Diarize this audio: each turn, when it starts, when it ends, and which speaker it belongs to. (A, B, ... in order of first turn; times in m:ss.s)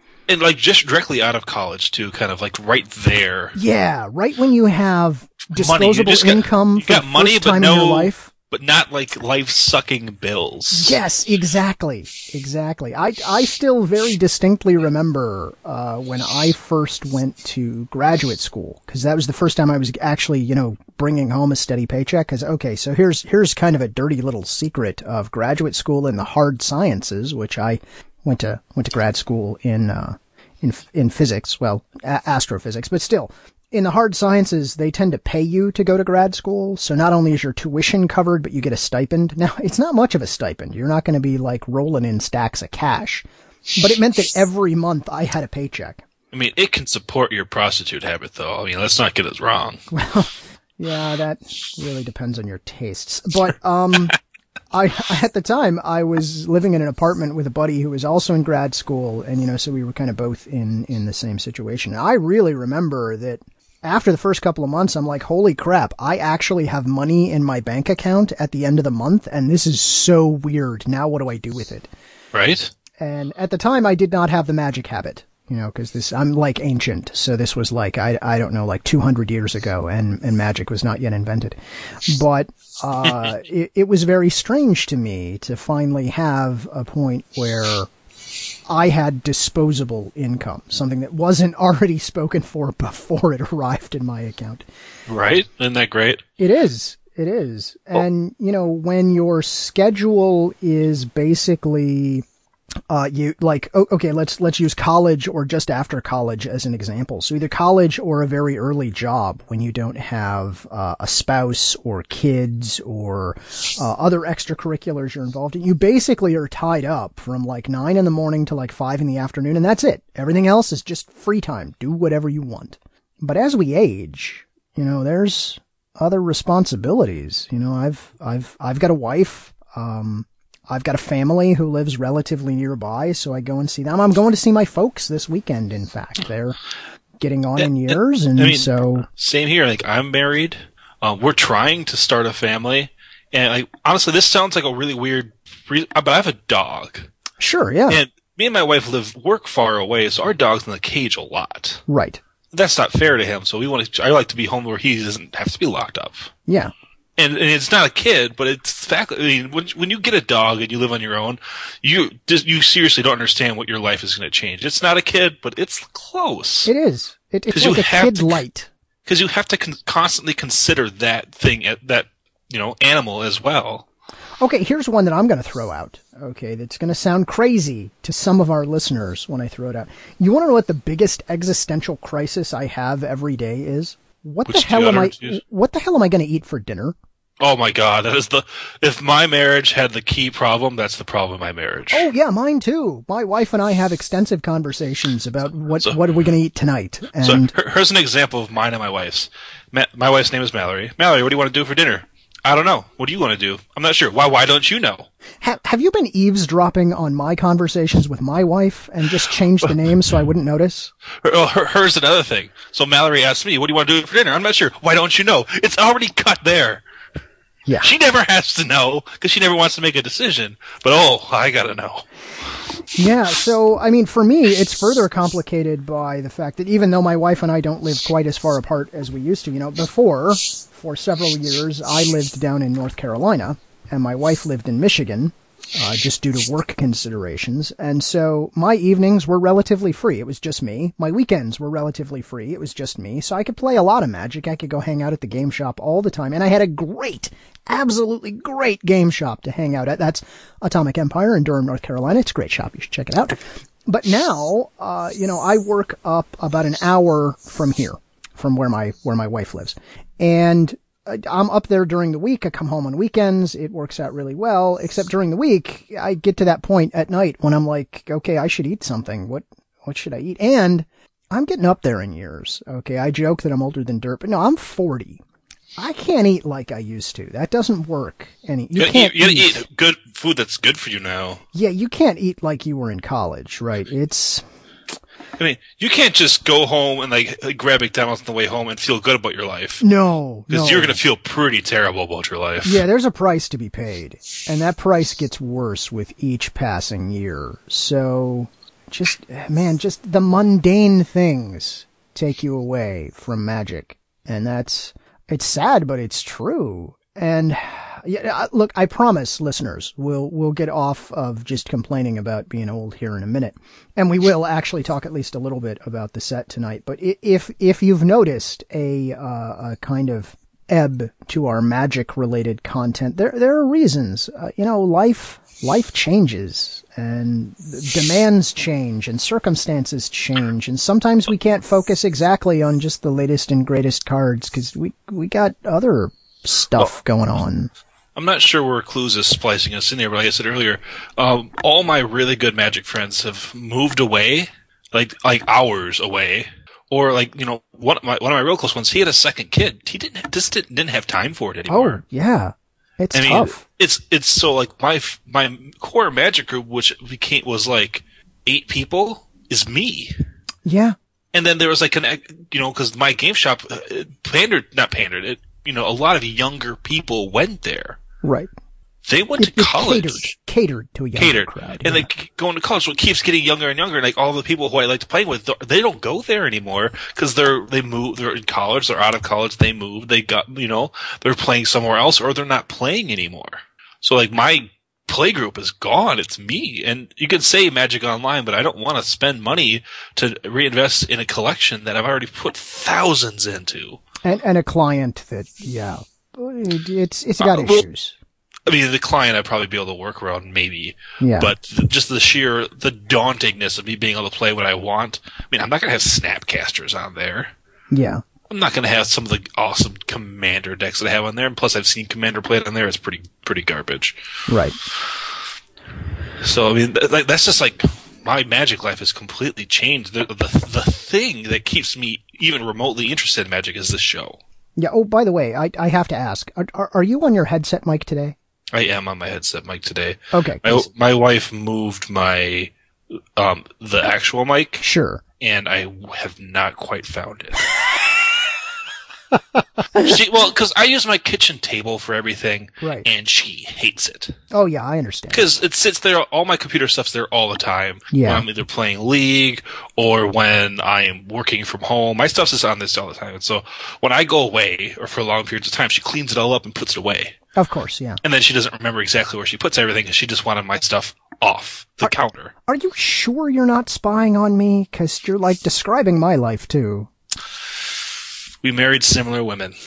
0:00.3-0:03.5 A
0:03.5-0:08.3 B
0:05.5-0:11.0 A
0:10.7-0:46.0 B
0:46.3-0:49.8 A
0:49.9-0:54.2 B
0:54.7-1:11.9 B
1:12.3-1:12.7 A
1:13.0-1:27.9 B
1:28.7-1:34.6 B
1:35.1-1:36.2 A
1:36.4-1:42.2 B
1:42.9-2:16.6 B
2:17.2-2:19.1 B
2:17.6-2:27.1 A
2:27.4-2:28.0 B
2:27.9-2:31.8 A
2:31.9-2:32.2 B
2:32.5-2:36.3 A
2:36.5-2:36.7 B
2:37.2-2:46.7 A
2:46.6-2:48.7 B
2:47.5-2:48.4 A
2:49.0-2:53.8 A
2:54.4-3:07.0 B
3:04.5-3:05.4 A
3:07.4-3:12.1 A
3:11.9-3:17.5 B
3:17.2-3:25.1 A
3:25.4-3:30.9 B
3:31.2-3:36.8 A
3:37.8-3:42.0 A
3:42.9-4:35.2 B
4:35.8-4:39.6 B
4:38.8-4:41.4 A
4:41.5-4:44.4 B
4:45.4-4:49.8 A
4:49.8-4:51.0 B
4:50.5-4:52.8 A
4:52.6-5:37.7 B
5:38.1-5:52.0 A
5:51.7-5:53.6 B
5:53.1-6:00.1 A
6:00.6-6:01.0 B
6:01.3-6:08.0 A
6:08.2-6:08.5 B
6:09.0-6:10.3 A
6:09.4-6:12.1 B
6:11.1-6:34.0 A
6:34.2-6:38.2 B
6:37.4-6:37.9 A
6:38.6-6:47.5 A
6:41.2-6:41.5 B
6:47.9-6:48.2 B
6:48.5-6:54.2 A
6:54.5-6:54.8 B
6:56.4-7:04.4 A
7:04.8-7:08.4 B
7:08.7-7:12.7 A
7:10.3-7:10.8 B
7:13.4-7:14.8 A
7:14.8-7:15.2 B
7:15.4-7:17.7 A
7:19.9-7:24.4 A
7:22.8-7:23.1 B
7:24.5-7:25.4 B
7:25.3-7:37.3 A
7:28.1-7:28.4 B
7:37.6-7:38.2 B
7:38.2-7:42.5 A
7:42.0-7:47.1 B
7:48.6-7:49.8 A